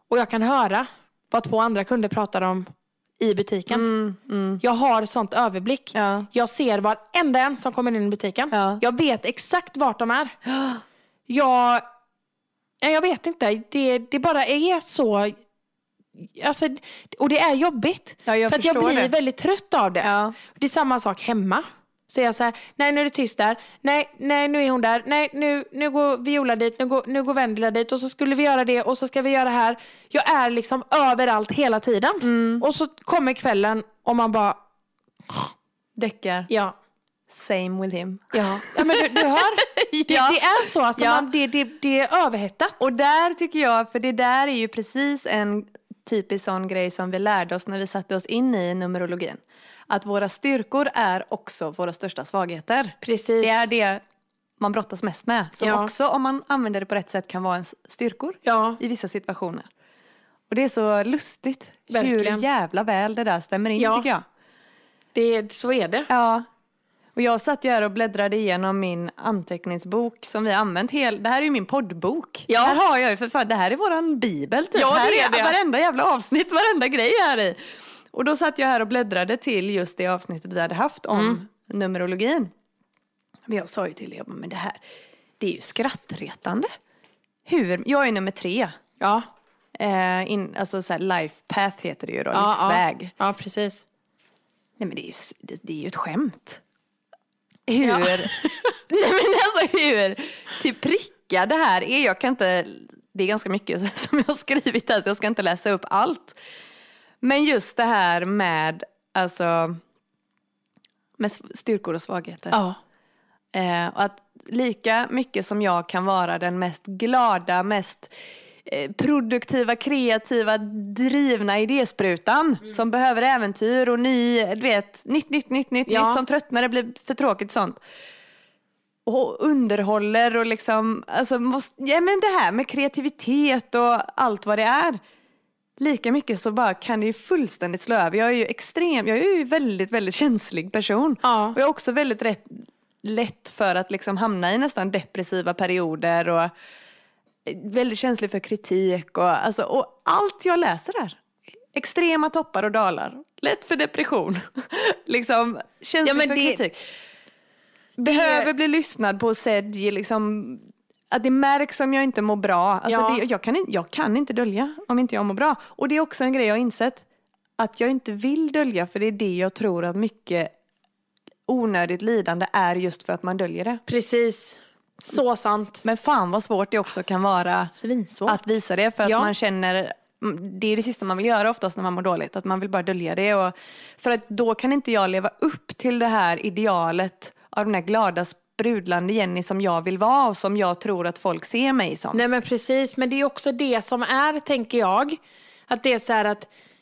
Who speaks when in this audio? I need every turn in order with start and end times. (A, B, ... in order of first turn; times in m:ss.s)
0:00.1-0:02.7 A
0:03.2-0:03.9 A
0:03.7-0:04.6 B
0:04.6-0:10.4 A
0:06.0-0:06.3 B
0:08.5-0:08.8 B
0:10.5-0:10.8 B
0:11.3-0:11.8 A
0:12.8-0:15.4 A
0:16.2-0:34.6 A
0:18.3-0:19.1 B
0:20.0-0:20.4 B
0:32.2-0:32.6 B
0:36.0-0:36.5 B
0:36.5-0:36.8 A
0:37.3-0:40.4 B
0:38.3-0:42.8 A
0:41.0-0:41.3 B
0:42.8-0:54.0 B
0:53.0-0:53.7 A
0:54.6-0:59.7 B
0:55.6-0:55.9 A
0:58.4-0:58.8 A
1:00.5-1:04.2 B
1:01.9-1:02.4 A
1:03.8-1:04.1 A
1:05.1-1:06.1 A
1:06.1-1:06.5 B
1:07.2-1:17.6 B
1:12.5-1:12.8 A
1:14.7-1:15.6 A
1:18.1-1:22.5 B
1:21.1-1:21.4 A
1:23.5-1:24.8 B
1:25.4-1:26.7 B
1:27.5-1:28.8 B
1:29.0-1:29.3 A
1:29.8-1:33.1 B
1:32.3-1:33.8 A
1:34.8-1:36.6 B
1:37.7-1:46.4 B
1:37.8-1:38.7 A
1:47.2-1:49.8 B
1:51.2-1:52.6 B
1:52.5-1:52.8 A
1:53.5-1:58.1 B
1:58.6-2:07.8 B
2:05.9-2:06.2 A
2:09.1-2:15.0 B
2:15.8-2:26.5 B
2:21.2-2:21.6 A
2:27.4-2:31.2 B
2:31.7-2:36.8 B
2:36.0-2:36.6 A
2:38.0-2:47.0 B
2:38.0-2:38.5 A
2:42.9-2:43.2 A
2:47.6-2:50.5 B
2:51.5-2:53.8 B
2:53.9-2:55.8 A
2:55.8-2:57.7 B
2:57.7-2:58.4 A
2:58.3-3:12.2 B
2:59.0-2:59.3 A
3:12.1-3:16.5 A